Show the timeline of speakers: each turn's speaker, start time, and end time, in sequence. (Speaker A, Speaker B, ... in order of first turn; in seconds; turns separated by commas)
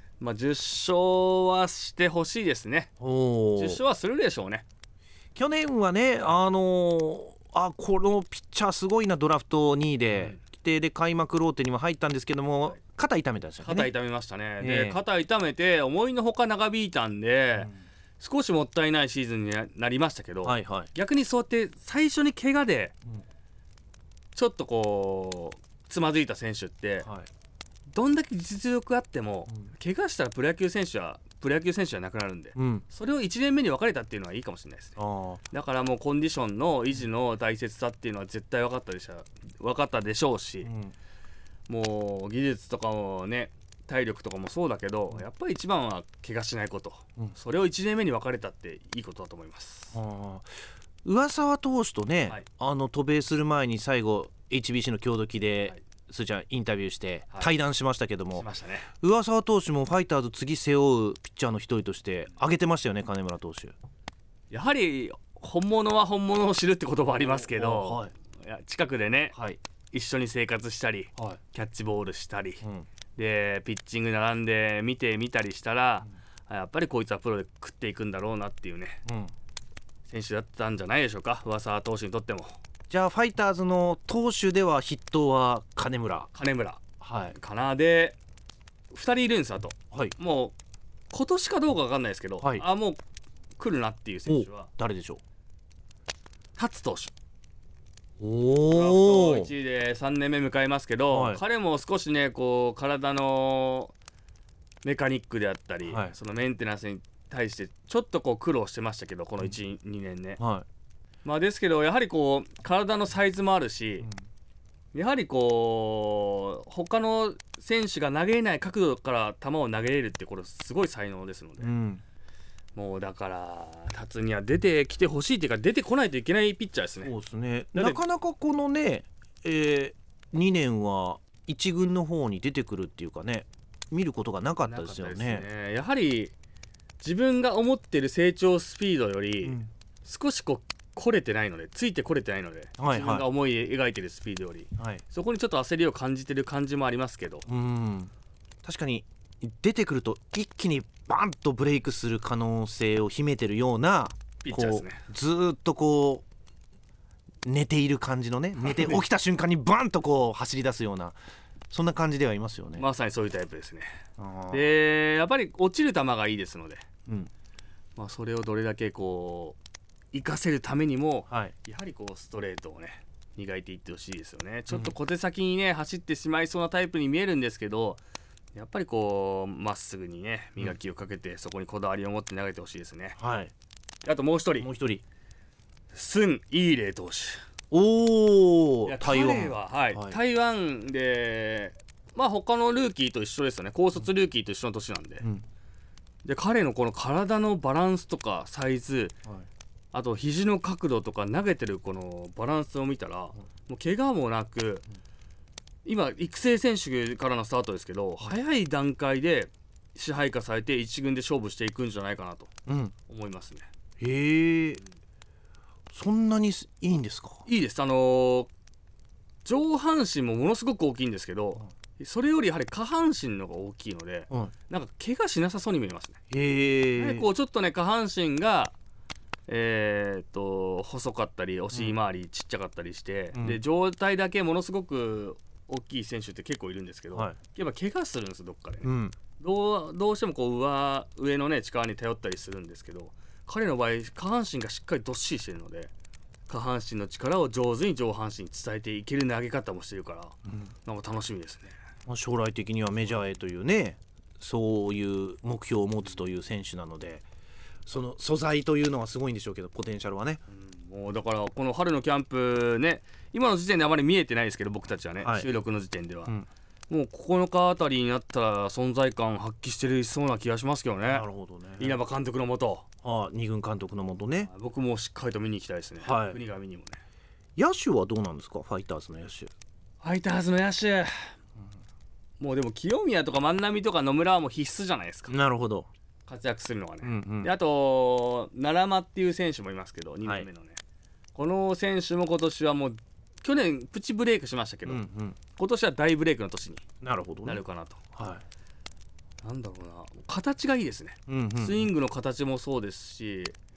Speaker A: 0.2-2.9, Speaker B: 3.0-3.8, Speaker A: 3.6-4.7, Speaker B: 5.3-13.9, Speaker A: 10.1-10.4, Speaker A: 13.6-22.9, Speaker B: 14.6-15.0, Speaker B: 20.4-20.9, Speaker A: 24.4-27.1, Speaker B: 27.0-27.3, Speaker A: 27.9-35.0, Speaker B: 32.5-32.8, Speaker B: 35.0-35.4, Speaker A: 35.5-40.7, Speaker B: 40.6-40.9, Speaker A: 41.7-50.0, Speaker B: 49.9-50.5, Speaker B: 51.0-58.5, Speaker A: 58.4-58.9, Speaker B: 59.0-63.8, Speaker A: 64.5-69.3, Speaker B: 67.2-68.1, Speaker B: 69.3-69.6, Speaker A: 69.9-72.6, Speaker A: 73.2-79.0, Speaker B: 79.1-79.3, Speaker A: 80.1-82.6, Speaker B: 82.9-86.3, Speaker A: 86.3-86.8, Speaker B: 87.0-87.4, Speaker A: 87.3-88.2, Speaker A: 88.9-90.5, Speaker A: 91.1-93.0, Speaker A: 93.6-94.7, Speaker B: 94.3-95.2, Speaker A: 96.6-97.1, Speaker B: 98.2-99.5, Speaker A: 98.7-103.9, Speaker B: 101.1-101.4, Speaker A: 104.8-110.4, Speaker B: 105.8-106.1, Speaker B: 110.4-110.7, Speaker A: 111.2-114.1, Speaker A: 114.9-121.7, Speaker B: 121.6-122.0, Speaker A: 122.8-127.1, Speaker B: 127.0-135.5, Speaker A: 127.8-128.0, Speaker A: 134.6-136.3, Speaker A: 137.0-147.5, Speaker B: 139.4-139.7, Speaker B: 142.8-143.3, Speaker B: 144.8-145.0, Speaker B: 147.5-148.1, Speaker B: 148.6-156.2, Speaker A: 154.4-155.0, Speaker B: 157.4-161.2, Speaker A: 158.6-159.0, Speaker B: 161.7-162.9, Speaker A: 162.8-163.9, Speaker B: 164.2-164.7, Speaker A: 164.5-166.8, Speaker A: 168.0-169.6, Speaker A: 170.1-178.0, Speaker B: 174.7-174.9, Speaker A: 178.5-183.2, Speaker B: 183.2-183.5, Speaker A: 184.1-184.7, Speaker B: 184.6-185.0, Speaker A: 185.9-187.4, Speaker B: 187.7-190.2, Speaker A: 188.9-195.2, Speaker A: 196.2-199.2, Speaker A: 199.9-204.9, Speaker A: 205.8-212.5, Speaker B: 212.7-212.9, Speaker A: 213.1-213.7, Speaker B: 214.0-214.8, Speaker B: 215.9-217.4, Speaker A: 217.5-218.5, Speaker A: 219.4-226.2, Speaker B: 226.3-227.3, Speaker A: 227.0-228.8, Speaker A: 229.5-245.9, Speaker B: 231.7-232.0, Speaker B: 233.3-233.6, Speaker B: 237.1-237.4, Speaker B: 238.8-239.2, Speaker A: 246.5-251.8, Speaker B: 252.1-257.2, Speaker B: 257.9-260.4, Speaker A: 260.5-266.3, Speaker B: 265.2-265.5, Speaker A: 266.9-271.3, Speaker B: 271.1-272.0, Speaker A: 271.8-272.9, Speaker B: 273.0-274.5, Speaker A: 274.4-277.0, Speaker B: 276.0-276.4, Speaker B: 277.6-279.5, Speaker A: 280.0-281.3, Speaker A: 282.4-285.4, Speaker B: 285.3-285.9, Speaker A: 286.3-290.8, Speaker B: 287.0-287.5, Speaker A: 291.3-296.8, Speaker B: 294.9-295.4, Speaker B: 297.0-297.6, Speaker A: 297.4-298.0, Speaker B: 298.1-298.4, Speaker A: 299.4-303.6, Speaker B: 301.3-301.9